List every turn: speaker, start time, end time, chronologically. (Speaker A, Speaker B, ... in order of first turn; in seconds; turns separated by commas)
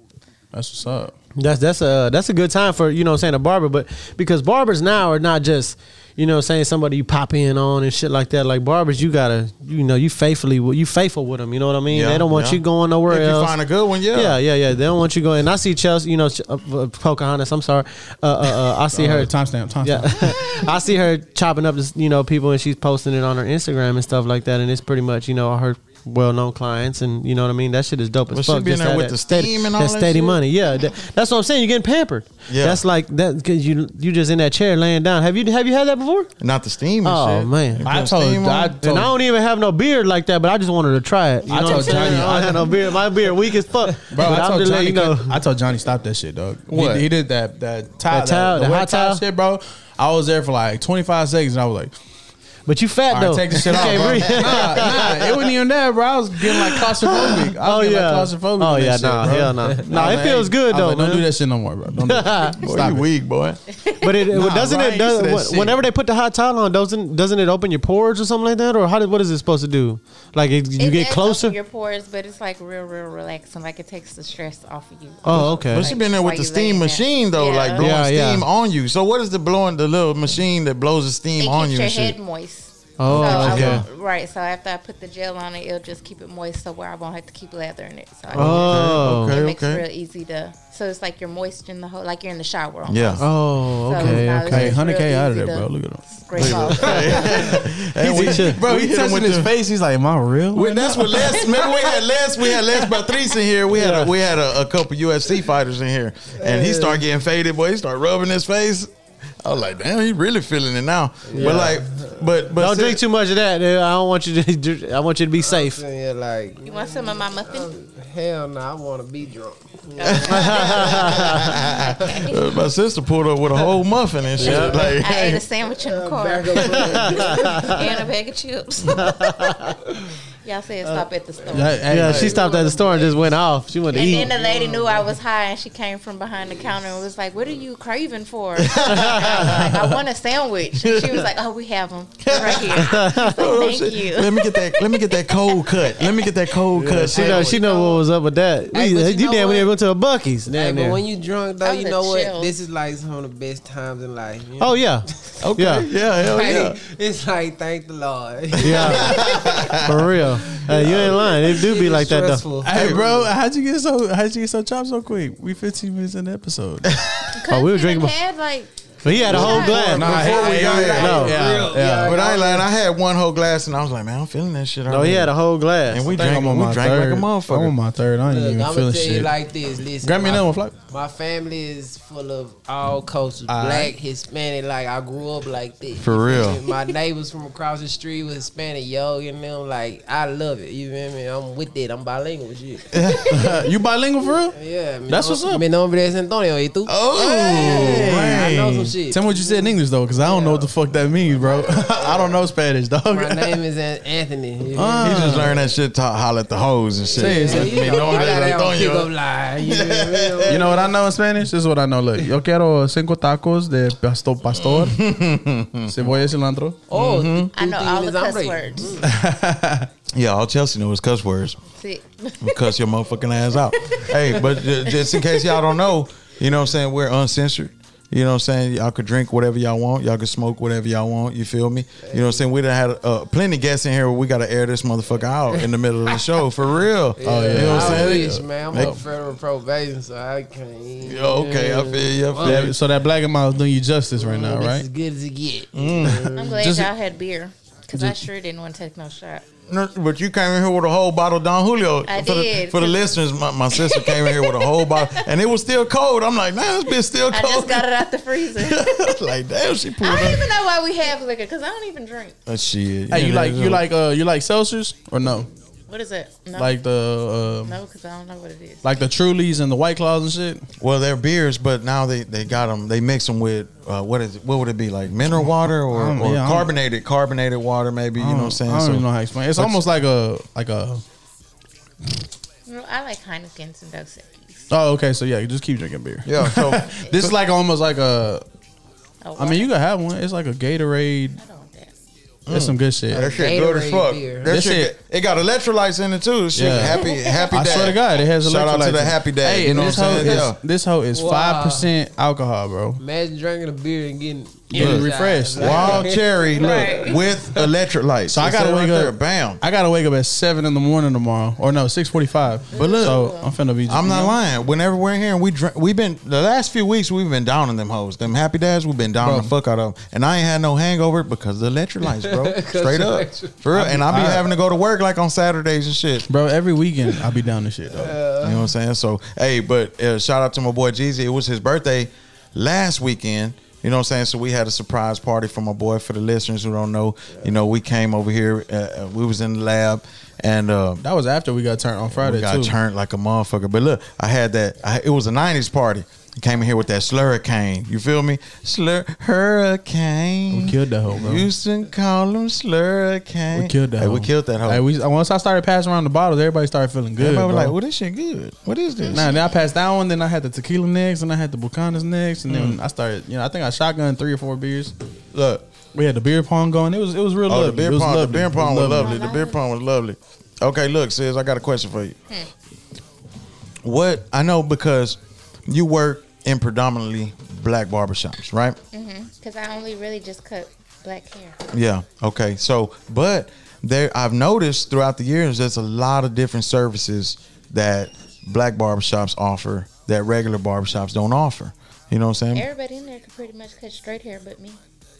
Speaker A: 0.5-1.1, Speaker B: 1.4-13.5, Speaker C: 11.9-14.4, Speaker B: 14.1-19.3, Speaker A: 18.9-20.6, Speaker B: 19.8-36.3, Speaker C: 28.3-30.4, Speaker C: 32.5-32.8, Speaker C: 36.4-38.8, Speaker B: 37.0-37.8, Speaker A: 37.8-39.1, Speaker B: 38.8-45.4, Speaker A: 41.5-42.9, Speaker A: 44.1-51.9, Speaker C: 46.7-47.0, Speaker B: 48.1-49.2, Speaker B: 52.7-55.5, Speaker A: 53.1-63.1, Speaker C: 53.7-54.8, Speaker B: 56.5-61.2, Speaker B: 62.1-62.5, Speaker C: 62.6-63.6, Speaker D: 63.8-64.2, Speaker B: 64.0-71.5, Speaker C: 64.3-65.8, Speaker A: 64.5-64.8, Speaker D: 70.8-77.9, Speaker B: 75.2-75.9, Speaker C: 75.3-82.2, Speaker B: 77.8-78.5, Speaker D: 81.4-97.5, Speaker B: 83.0-83.8, Speaker C: 83.0-83.8, Speaker C: 88.3-89.8, Speaker B: 88.3-89.3, Speaker C: 92.8-93.2, Speaker B: 93.2-94.8, Speaker A: 94.0-96.7, Speaker C: 96.3-99.5, Speaker B: 96.7-97.3, Speaker A: 98.0-101.5, Speaker B: 98.0-98.6, Speaker C: 100.5-108.9, Speaker D: 101.2-102.0, Speaker D: 102.5-103.2, Speaker B: 103.7-104.1, Speaker E: 106.4-107.0, Speaker C: 109.4-113.0, Speaker E: 111.2-112.2, Speaker B: 111.3-111.7, Speaker B: 112.5-115.8, Speaker E: 115.4-122.2, Speaker D: 116.6-117.7, Speaker D: 120.0-122.5, Speaker B: 120.3-121.4, Speaker C: 121.4-125.4, Speaker E: 124.4-124.9, Speaker B: 124.4-124.7, Speaker D: 124.8-129.3, Speaker E: 125.7-128.1, Speaker B: 126.7-127.6, Speaker B: 129.0-129.7, Speaker D: 130.4-133.2, Speaker A: 131.5-132.4, Speaker B: 131.9-134.3, Speaker D: 133.9-146.1, Speaker E: 133.9-135.1, Speaker C: 138.6-139.8, Speaker B: 138.9-139.5, Speaker C: 140.8-141.2, Speaker C: 142.2-147.6, Speaker B: 142.8-143.3, Speaker B: 146.8-151.0, Speaker E: 147.0-148.0, Speaker E: 148.7-149.7, Speaker E: 150.5-154.8, Speaker D: 151.6-152.5, Speaker B: 154.6-155.0, Speaker C: 155.4-156.8, Speaker B: 155.6-155.8, Speaker E: 156.2-159.8, Speaker B: 158.6-159.2, Speaker C: 158.6-160.1, Speaker B: 159.7-162.4, Speaker E: 160.7-163.3, Speaker C: 160.7-161.3, Speaker A: 162.6-167.0, Speaker C: 162.7-163.0, Speaker D: 167.3-170.5, Speaker B: 167.5-168.1, Speaker B: 169.0-170.2, Speaker E: 169.1-172.7, Speaker A: 169.3-172.2, Speaker C: 169.5-171.3, Speaker B: 170.9-171.3, Speaker C: 172.0-175.3, Speaker B: 174.9-176.0, Speaker C: 175.9-177.7, Speaker A: 176.1-179.3, Speaker E: 178.3-192.9, Speaker A: 180.0-180.7, Speaker A: 183.5-183.9, Speaker C: 186.0-186.6, Speaker C: 192.9-193.4, Speaker A: 193.3-194.6, Speaker E: 194.5-200.7, Speaker A: 195.1-195.6, Speaker C: 196.9-198.9, Speaker A: 197.5-198.5, Speaker A: 199.1-203.6, Speaker E: 201.3-202.4, Speaker E: 203.1-205.7, Speaker A: 204.7-205.5, Speaker C: 205.0-209.1, Speaker E: 207.1-210.9, Speaker A: 207.1-208.6, Speaker C: 209.6-210.6, Speaker A: 210.5-215.0, Speaker C: 214.5-216.1, Speaker A: 215.9-216.8, Speaker E: 216.9-219.0, Speaker C: 216.9-217.5, Speaker D: 217.5-219.0, Speaker A: 219.0-219.9, Speaker C: 220.1-221.6, Speaker D: 221.8-222.7, Speaker C: 222.4-239.0, Speaker D: 223.9-225.8, Speaker E: 232.0-232.4, Speaker E: 237.2-242.7, Speaker A: 237.2-239.0, Speaker C: 241.0-242.7, Speaker A: 242.4-244.8, Speaker E: 244.2-246.6, Speaker C: 245.7-246.3, Speaker D: 246.3-249.4, Speaker A: 246.6-246.9, Speaker A: 247.9-248.2, Speaker C: 249.7-257.9, Speaker D: 252.0-253.1, Speaker D: 253.7-255.2, Speaker D: 257.3-259.1, Speaker C: 258.5-260.4, Speaker D: 260.0-262.4, Speaker C: 262.5-263.8, Speaker A: 263.1-265.5, Speaker D: 265.9-266.7, Speaker A: 266.6-267.7, Speaker D: 267.6-268.8, Speaker A: 268.8-270.6, Speaker C: 270.8-279.8, Speaker A: 275.8-276.7, Speaker A: 278.2-281.0, Speaker D: 282.6-284.6, Speaker A: 284.7-288.4, Speaker C: 286.2-287.3, Speaker D: 289.2-289.7, Speaker A: 289.4-291.4, Speaker D: 291.4-291.9, Speaker C: 292.5-300.6, Speaker A: 292.5-293.3, Speaker E: 293.1-294.6, Speaker A: 294.5-294.9, Speaker A: 296.5-303.0, Speaker D: 297.0-297.9, Speaker E: 301.1-301.9, Speaker E: 303.0-307.6, Speaker A: 304.7-306.1, Speaker C: 304.7-309.6, Speaker D: 306.5-307.2, Speaker A: 308.3-314.3, Speaker D: 312.7-313.5, Speaker C: 312.7-313.2, Speaker C: 313.9-326.2, Speaker A: 319.2-319.5, Speaker E: 322.2-323.5, Speaker A: 323.7-324.5, Speaker A: 326.2-328.2, Speaker E: 327.9-328.6, Speaker C: 328.4-341.0, Speaker A: 341.0-342.7, Speaker C: 342.1-354.8, Speaker A: 350.5-351.5, Speaker A: 353.5-357.7, Speaker C: 357.2-359.3, Speaker D: 359.0-359.5, Speaker A: 359.1-364.9, Speaker C: 362.5-362.8, Speaker C: 365.3-365.6, Speaker A: 365.9-369.2, Speaker C: 367.5-372.1, Speaker D: 369.0-369.6, Speaker C: 373.8-378.8, Speaker D: 378.9-381.6, Speaker C: 381.7-392.7, Speaker D: 392.5-394.8